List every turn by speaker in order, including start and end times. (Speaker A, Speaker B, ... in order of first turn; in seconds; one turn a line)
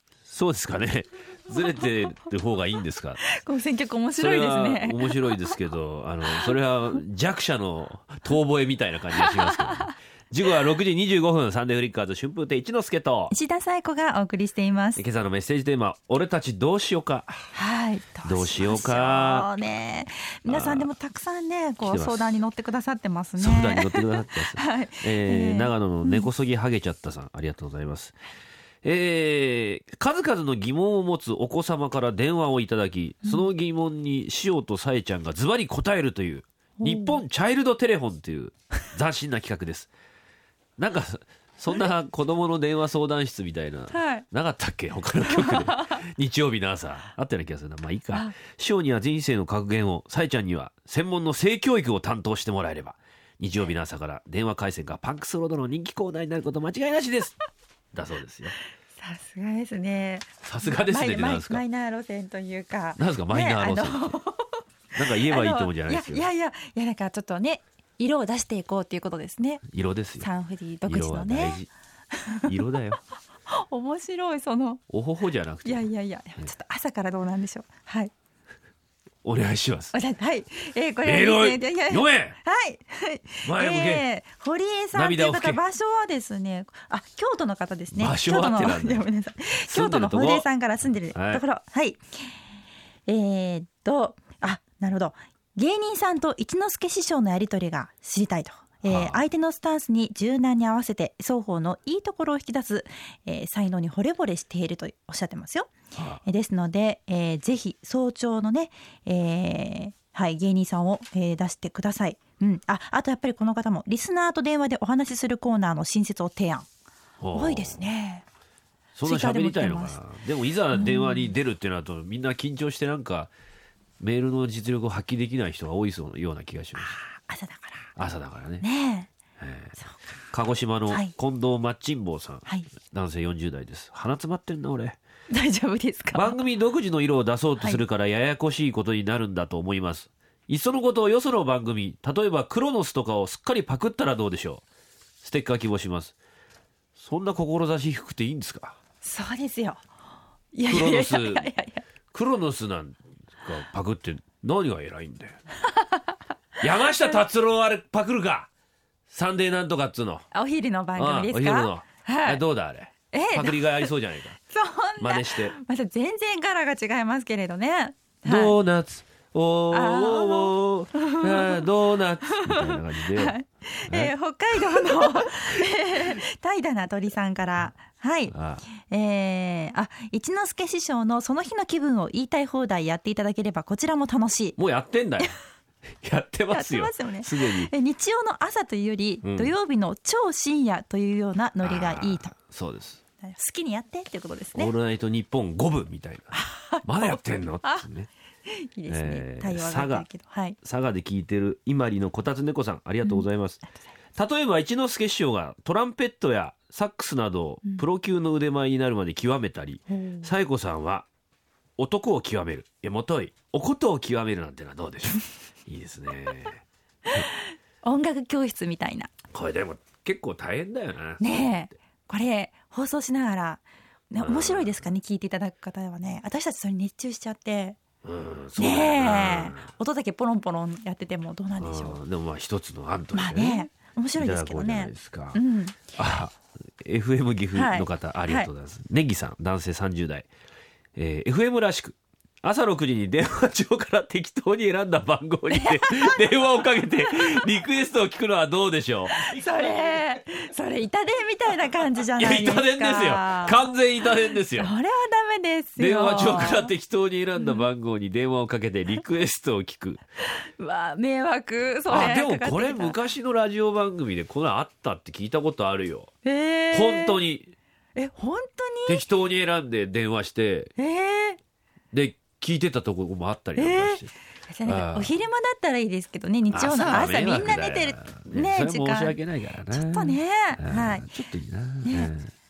Speaker A: 0.3-3.2
Speaker B: 3.3-5.4
Speaker A: 4.2-13.3
Speaker B: 9.1-9.9
Speaker B: 13.3-15.0
Speaker A: 15.0-17.4
Speaker B: 17.5-26.3
Speaker A: 18.2-19.5
Speaker A: 20.5-20.9
Speaker A: 21.8-22.4
Speaker A: 23.4-28.2
Speaker A: 28.8-39.9
Speaker B: 36.8-37.2
Speaker A: 40.8-57.4
Speaker B: 43.9-44.2
Speaker B: 45.3-46.0
Speaker A: 57.9-58.6
Speaker B: 59.0-64.6
Speaker A: 60.4-61.6
Speaker A: 63.0-64.2
Speaker A: 65.0-66.3
Speaker B: 65.2-69.6
Speaker A: 69.7-70.3
Speaker B: 70.2-71.6
Speaker A: 70.8-71.7
Speaker B: 72.2-72.5
Speaker A: 72.5-73.0
Speaker B: 73.5-74.8
Speaker A: 74.9-75.9
Speaker B: 75.7-78.1
Speaker A: 79.2-79.9
Speaker B: 79.9-92.0
Speaker A: 81.0-82.4
Speaker A: 83.4-84.0
Speaker A: 84.9-85.6
Speaker A: 87.9-89.1
Speaker A: 89.7-90.5
Speaker A: 91.1-91.4
Speaker B: 93.1-116.7
Speaker A: 98.9-99.2
Speaker A: 105.9-106.2
Speaker A: 117.2-117.8
Speaker B: 117.3-118.2
Speaker A: 119.0-123.3
Speaker B: 119.0-120.0
Speaker B: 120.7-121.3
Speaker A: 124.0-127.0
Speaker B: 126.8-127.9
Speaker A: 128.0-128.7
Speaker B: 128.6-129.1
Speaker A: 129.4-129.8
Speaker A: 130.3-135.0
Speaker B: 130.9-131.1
Speaker B: 135.3-136.4
Speaker A: 136.1-144.6
Speaker A: 145.2-146.2
Speaker A: 147.0-148.8
Speaker B: 149.0-149.8
Speaker B: 150.5-151.8
Speaker A: 150.7-151.5
Speaker A: 152.1-155.4
Speaker B: 155.7-156.0
Speaker A: 156.6-158.5
Speaker A: 159.1-160.2
Speaker B: 160.3-162.4
Speaker A: 161.0-164.4
Speaker B: 163.1-163.9
Speaker B: 164.5-168.6
Speaker A: 165.0-165.6
Speaker A: 168.2-173.4
Speaker B: 169.7-171.7
Speaker B: 172.3-184.6
Speaker A: 173.9-175.4
Speaker A: 178.3-178.6
Speaker A: 184.6-185.4
Speaker A: 186.0-187.7
Speaker B: 186.5-192.3
Speaker A: 189.2-189.5
Speaker A: 191.6-193.0
Speaker B: 193.2-194.7
Speaker A: 194.6-198.1
Speaker B: 196.3-197.9
Speaker B: 198.5-200.6
Speaker A: 198.9-200.1
Speaker A: 200.6-203.6
Speaker A: 204.2-211.1
Speaker B: 209.9-210.3
Speaker A: 211.8-216.6
Speaker B: 217.1-219.1
Speaker A: 219.3-221.5
Speaker B: 221.2-227.8
Speaker A: 224.2-224.8
Speaker A: 228.0-229.7
Speaker B: 228.6-232.0
Speaker A: 231.6-240.3
Speaker B: 233.1-235.9
Speaker B: 237.5-238.5
Speaker A: 241.0-249.4
Speaker B: 245.5-247.5
Speaker B: 249.1-253.6
Speaker A: 252.2-254.7
Speaker B: 254.5-256.7
Speaker A: 255.8-260.0
Speaker B: 257.4-257.7
Speaker B: 260.4-263.0
Speaker A: 261.9-266.1
Speaker B: 266.2-267.2
Speaker A: 266.7-267.5
Speaker B: 268.0-269.0
Speaker A: 268.9-270.7
Speaker B: 270.8-271.4
Speaker A: 271.9-274.1
Speaker B: 273.6-279.2
Speaker A: 274.6-275.1
Speaker A: 276.5-282.3
Speaker B: 279.7-281.1
Speaker B: 281.9-282.1